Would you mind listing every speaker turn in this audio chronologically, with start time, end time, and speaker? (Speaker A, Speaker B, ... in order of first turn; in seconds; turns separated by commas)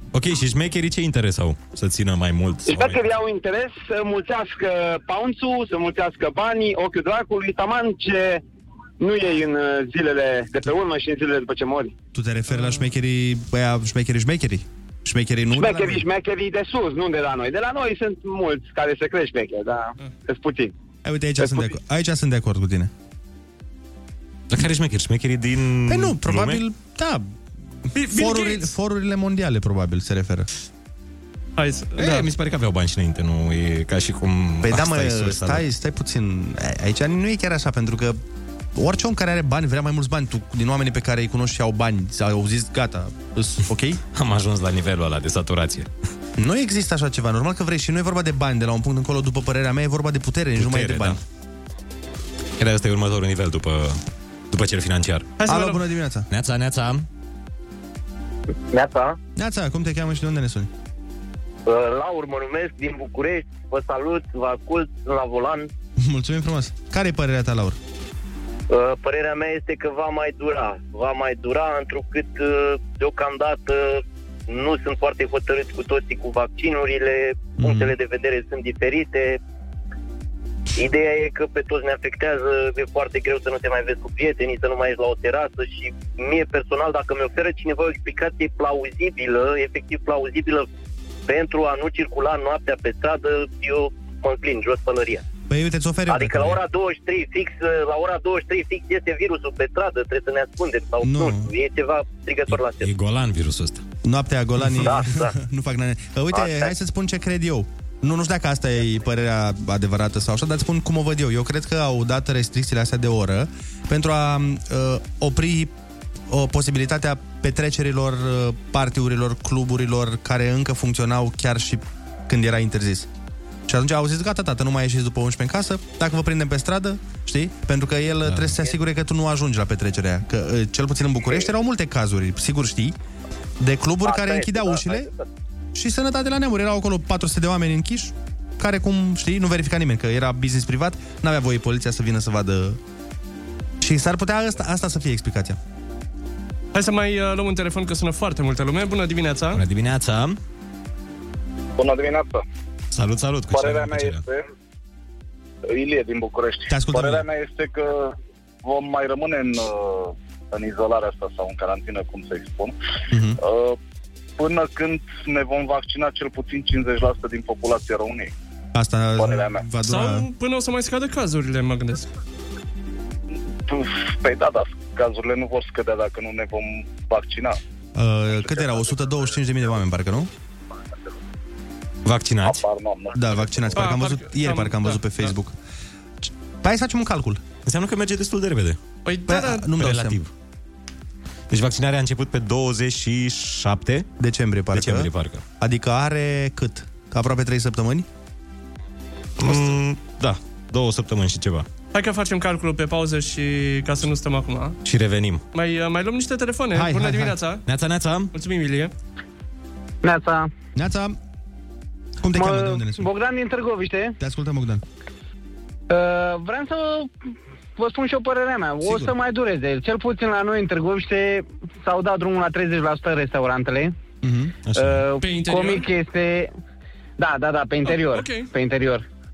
Speaker A: 0.1-3.0, Speaker B: 2.7-8.4, Speaker B: 9.0-11.9, Speaker C: 12.1-16.1, Speaker D: 12.5-12.8, Speaker B: 15.5-20.7, Speaker C: 21.0-22.9, Speaker B: 21.4-21.7, Speaker A: 24.5-26.6, Speaker C: 25.9-27.3, Speaker C: 27.9-30.5, Speaker D: 27.9-28.7, Speaker D: 31.6-32.3, Speaker A: 32.0-35.6, Speaker C: 34.6-38.2, Speaker C: 38.8-44.0, Speaker A: 44.1-45.9, Speaker C: 46.4-51.2, Speaker A: 50.6-51.2, Speaker A: 52.6-55.3, Speaker D: 55.4-55.8, Speaker C: 55.5-56.3, Speaker A: 56.3-57.1, Speaker E: 58.7-59.2, Speaker C: 59.4-60.7, Speaker E: 61.7-65.7, Speaker C: 66.0-67.8, Speaker E: 68.7-79.4, Speaker C: 77.6-77.9, Speaker E: 80.8-90.7, Speaker E: 91.3-95.3, Speaker C: 95.5-96.6, Speaker E: 96.1-102.9, Speaker C: 101.0-101.5, Speaker A: 102.5-103.8, Speaker C: 104.0-115.7, Speaker E: 104.8-105.3, Speaker E: 106.3-106.7, Speaker C: 116.3-123.1, Speaker C: 123.7-132.9, Speaker A: 128.3-128.6, Speaker C: 133.6-135.1, Speaker E: 134.1-135.2, Speaker C: 135.8-142.8, Speaker C: 143.8-145.6, Speaker D: 146.7-149.6, Speaker A: 149.5-150.4, Speaker F: 151.8-152.4, Speaker A: 152.9-154.2, Speaker F: 153.5-154.4, Speaker F: 155.7-162.8, Speaker C: 156.7-157.2, Speaker C: 163.1-163.4, Speaker F: 163.4-163.8, Speaker F: 164.4-168.3, Speaker C: 168.7-170.3, Speaker F: 169.2-169.7, Speaker D: 169.8-172.1, Speaker F: 173.7-177.6, Speaker C: 177.9-180.3, Speaker F: 178.3-179.3, Speaker A: 182.1-182.6, Speaker F: 182.4-183.9, Speaker C: 183.2-185.6, Speaker D: 183.8-185.3, Speaker C: 186.2-187.4, Speaker A: 187.7-188.8, Speaker D: 189.1-189.7, Speaker C: 189.3-190.2, Speaker A: 189.8-190.3, Speaker A: 191.5-194.1, Speaker C: 194.2-198.1, Speaker A: 194.7-195.4, Speaker A: 199.4-201.7, Speaker D: 201.9-204.8, Speaker A: 204.8-205.4, Speaker D: 205.5-207.6, Speaker C: 206.7-207.3, Speaker A: 207.7-208.3, Speaker D: 208.3-208.9, Speaker G: 210.0-210.5, Speaker C: 210.8-211.2, Speaker C: 212.2-213.1, Speaker G: 212.3-214.2, Speaker C: 214.2-214.8, Speaker G: 215.9-217.1, Speaker G: 217.8-223.9, Speaker C: 224.2-224.6, Speaker A: 224.7-225.0, Speaker G: 224.8-226.5, Speaker D: 225.2-225.9, Speaker G: 227.2-229.1, Speaker D: 227.8-228.5